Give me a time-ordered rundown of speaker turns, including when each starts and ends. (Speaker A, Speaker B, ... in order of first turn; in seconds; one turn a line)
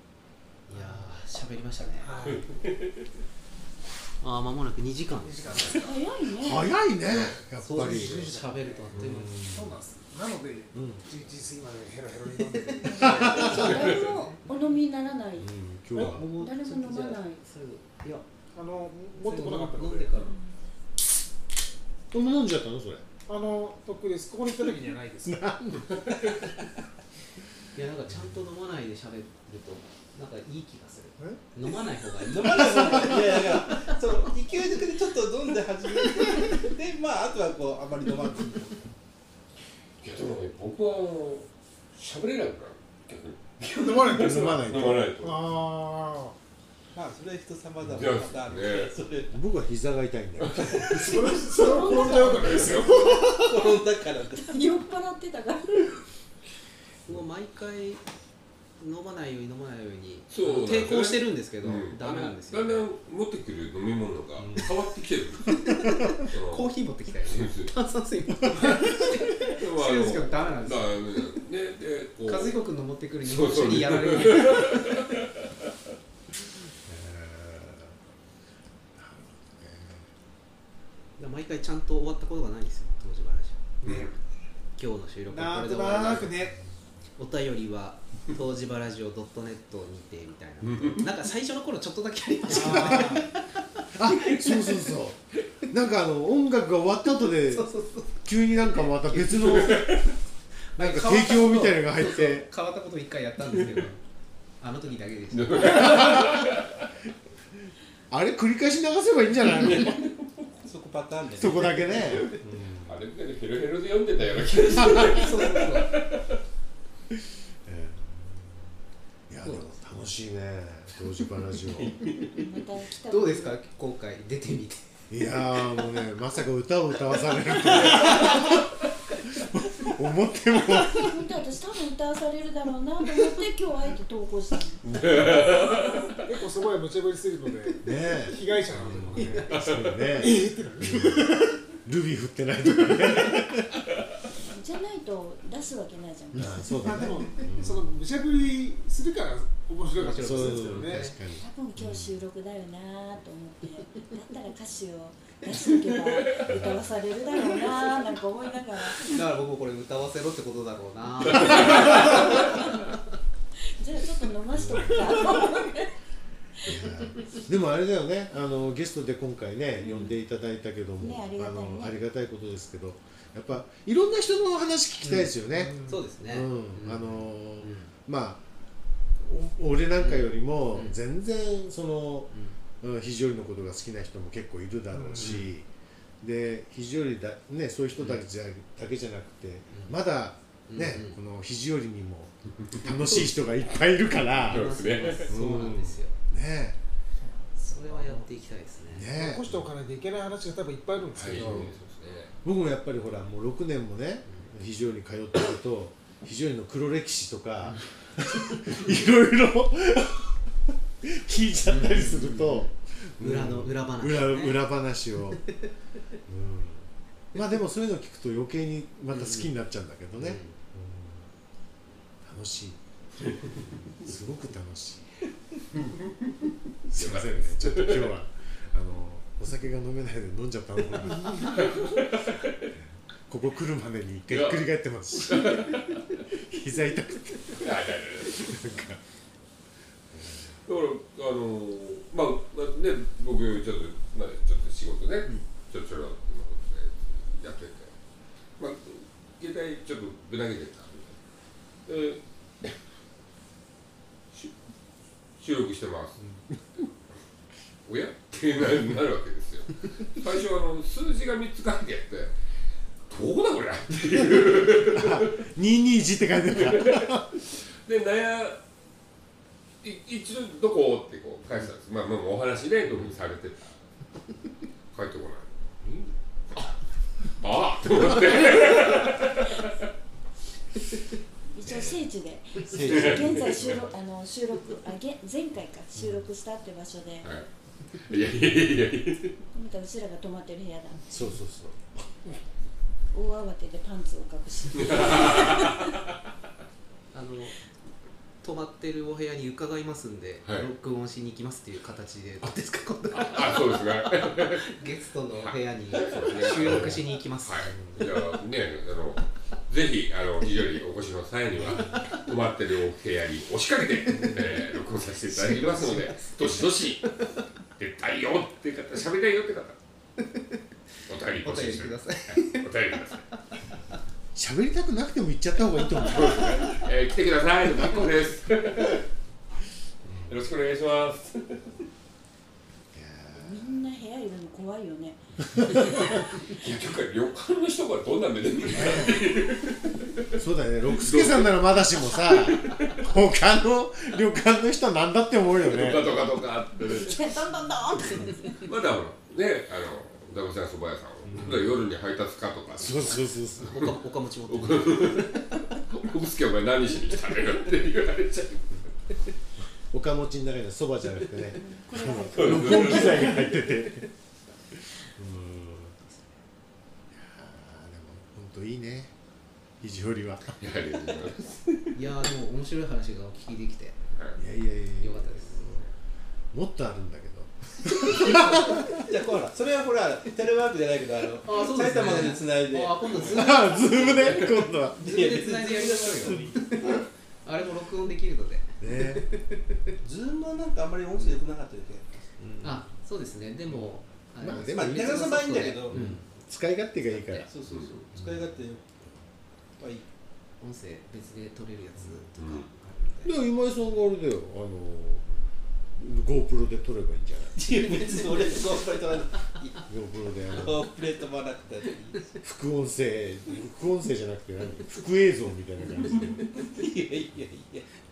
Speaker A: 0.7-2.1
Speaker B: 0.7-1.1
Speaker B: 2.0-2.5
Speaker A: 4.2-5.8
Speaker B: 5.2-6.1
Speaker C: 5.7-6.7
Speaker D: 6.4-8.2
Speaker A: 7.6-9.4
Speaker B: 7.7-13.8
Speaker D: 8.9-9.8
Speaker D: 10.7-11.1
Speaker C: 12.8-17.4
Speaker A: 12.8-14.8
Speaker D: 13.0-13.5
Speaker D: 15.4-16.3
Speaker A: 15.9-18.3
Speaker B: 18.6-20.2
Speaker A: 19.1-20.4
Speaker C: 20.2-20.6
Speaker D: 22.1-23.0
Speaker B: 23.3-25.6
Speaker D: 25.3-25.9
Speaker A: 27.8-33.7
Speaker E: 32.3-38.9
Speaker D: 32.8-33.1
Speaker F: 40.0-45.5
Speaker B: 43.6-44.6
Speaker D: 44.1-45.1
Speaker B: 45.2-46.3
Speaker E: 46.9-49.4
Speaker F: 47.9-49.0
Speaker D: 49.3-51.3
Speaker E: 50.8-51.6
Speaker B: 51.0-53.5
Speaker F: 51.3-53.1
Speaker C: 51.6-53.2
Speaker E: 53.1-54.5
Speaker C: 54.3-56.0
Speaker A: 57.1-58.0
Speaker A: 58.8-62.9
Speaker F: 60.3-66.7
Speaker D: 64.4-64.7
Speaker A: 65.7-71.1
Speaker F: 67.2-67.7
Speaker F: 69.6-72.6
Speaker A: 72.3-75.1
Speaker F: 73.2-75.3
Speaker D: 76.9-78.0
Speaker D: 79.0-80.1
Speaker A: 81.2-84.1
Speaker F: 83.8-84.1
Speaker B: 83.8-84.1
Speaker A: 84.8-86.4
Speaker B: 85.3-86.6
Speaker A: 87.2-93.5
Speaker F: 90.6-91.0
Speaker B: 92.5-93.2
Speaker D: 92.5-93.2
Speaker D: 94.0-99.9
Speaker A: 94.2-94.9
Speaker A: 97.3-100.0
Speaker F: 99.5-100.0
Speaker A: 100.7-104.0
Speaker D: 100.8-102.5
Speaker F: 103.5-103.9
Speaker A: 104.6-106.2
Speaker F: 105.3-106.9
Speaker D: 108.1-110.1
Speaker F: 109.5-110.0
Speaker E: 110.6-111.8
Speaker D: 111.3-113.0
Speaker F: 112.0-112.3
Speaker F: 112.8-116.4
Speaker D: 114.8-115.1
Speaker A: 114.9-115.9
Speaker D: 117.1-118.6
Speaker D: 119.3-122.0
Speaker A: 119.4-119.7
Speaker F: 121.7-122.3
Speaker C: 122.2-123.6
Speaker A: 123.0-124.8
Speaker D: 125.1-128.6
Speaker A: 125.5-125.8
Speaker A: 127.5-128.6
Speaker D: 129.4-131.2
Speaker C: 130.8-136.2
Speaker F: 134.8-136.3
Speaker B: 136.2-139.5
Speaker D: 137.8-143.6
Speaker F: 139.5-140.0
Speaker B: 140.2-141.4
Speaker C: 144.4-147.0
Speaker D: 146.3-147.9
Speaker B: 146.8-151.0
Speaker A: 150.0-151.2
Speaker D: 150.2-152.2
Speaker C: 151.3-159.2
Speaker A: 158.9-162.7
Speaker C: 162.0-162.7
Speaker C: 163.8-165.9
Speaker D: 164.5-165.3
Speaker D: 166.7-178.4
Speaker C: 171.0-172.0
Speaker A: 175.0-177.9
Speaker B: 175.5-176.0
Speaker D: 179.2-185.7
Speaker A: 180.0-181.0
Speaker A: 182.3-182.6
Speaker B: 184.9-185.4
Speaker A: 185.2-185.5
Speaker D: 186.2-194.7
Speaker A: 188.0-188.3
Speaker A: 189.7-190.0
Speaker A: 190.7-191.2
Speaker A: 194.4-196.2
Speaker F: 194.4-195.3
Speaker D: 195.2-196.8
Speaker B: 197.2-198.3
Speaker A: 197.6-199.1
Speaker D: 198.9-199.7
Speaker B: 199.1-201.7
Speaker F: 201.1-202.3
Speaker D: 201.3-201.7
Speaker D: 202.4-210.4
Speaker D: 211.0-215.4
Speaker A: 211.7-212.7
Speaker A: 213.2-214.7
Speaker D: 216.3-221.3
Speaker A: 219.1-219.5
Speaker A: 220.2-220.6
Speaker D: 222.2-222.8
Speaker D: 224.0-225.2
Speaker D: 226.9-231.7
Speaker F: 226.9-228.2
Speaker F: 231.4-232.7
Speaker D: 232.7-235.8
Speaker F: 234.3-236.2
Speaker D: 236.3-239.0
Speaker F: 237.6-238.6
Speaker D: 240.1-240.6
Speaker F: 240.7-247.9
Speaker F: 248.6-251.2
Speaker F: 251.9-252.8
Speaker F: 255.4-256.4
Speaker F: 257.9-262.4
Speaker F: 263.1-265.3
Speaker D: 264.9-267.3
Speaker F: 266.5-267.3
Speaker F: 267.9-268.6
Speaker F: 269.8-273.8
Speaker F: 274.9-275.5
Speaker F: 277.4-279.7
Speaker C: 281.6-287.3
Speaker D: 281.6-282.0
Speaker D: 282.7-283.7
Speaker F: 282.8-283.9
Speaker D: 285.9-286.3
Speaker F: 287.2-289.4
Speaker C: 289.5-291.3
Speaker D: 291.1-292.1
Speaker C: 293.1-296.0
Speaker F: 294.8-295.9
Speaker A: 297.1-297.6
Speaker A: 298.4-307.8
Speaker F: 303.1-304.8
Speaker F: 305.3-317.3
Speaker D: 306.5-307.0
Speaker D: 307.7-308.0
Speaker A: 311.7-312.2
Speaker A: 314.1-314.7
Speaker A: 315.3-316.8
Speaker F: 317.8-319.8
Speaker A: 320.3-320.6
Speaker F: 321.1-323.2
Speaker A: 321.4-323.4
Speaker D: 324.4-326.7
Speaker F: 326.1-329.0
Speaker D: 330.0-330.4
Speaker F: 330.3-331.8
Speaker D: 332.9-333.8
Speaker C: 333.4-336.3
Speaker F: 336.5-340.4
Speaker D: 338.7-339.2
Speaker D: 340.4-346.1
Speaker F: 340.9-342.9
Speaker F: 345.6-353.9
Speaker C: 346.8-348.7
Speaker D: 351.2-351.8
Speaker D: 352.7-353.9
Speaker A: 353.6-355.4
Speaker F: 354.5-358.9
Speaker D: 359.9-364.1
Speaker C: 361.6-363.2
Speaker F: 362.3-363.4
Speaker D: 365.2-366.0
Speaker D: 367.1-369.1
Speaker D: 369.8-370.6
Speaker F: 370.6-371.9
Speaker A: 371.9-374.0
Speaker F: 374.1-374.4
Speaker D: 374.4-375.9
Speaker A: 375.0-375.7
Speaker D: 376.5-378.9
Speaker E: 378.9-383.5
Speaker A: 381.4-389.8
Speaker D: 383.1-385.0
Speaker E: 385.0-386.6
Speaker D: 388.8-389.3
Speaker E: 390.0-392.2
Speaker D: 392.4-392.8
Speaker A: 392.6-396.2
Speaker D: 393.7-395.3
Speaker E: 394.7-396.1
Speaker D: 395.9-397.5
Speaker A: 397.1-397.5
Speaker E: 397.5-398.8
Speaker F: 397.7-398.0
Speaker E: 399.8-400.1
Speaker A: 400.6-403.4
Speaker F: 402.4-402.6
Speaker D: 403.2-405.3
Speaker D: 406.0-407.8
Speaker E: 407.6-409.8
Speaker D: 409.9-410.8
Speaker E: 410.5-412.3
Speaker D: 412.4-416.4
Speaker E: 416.6-417.8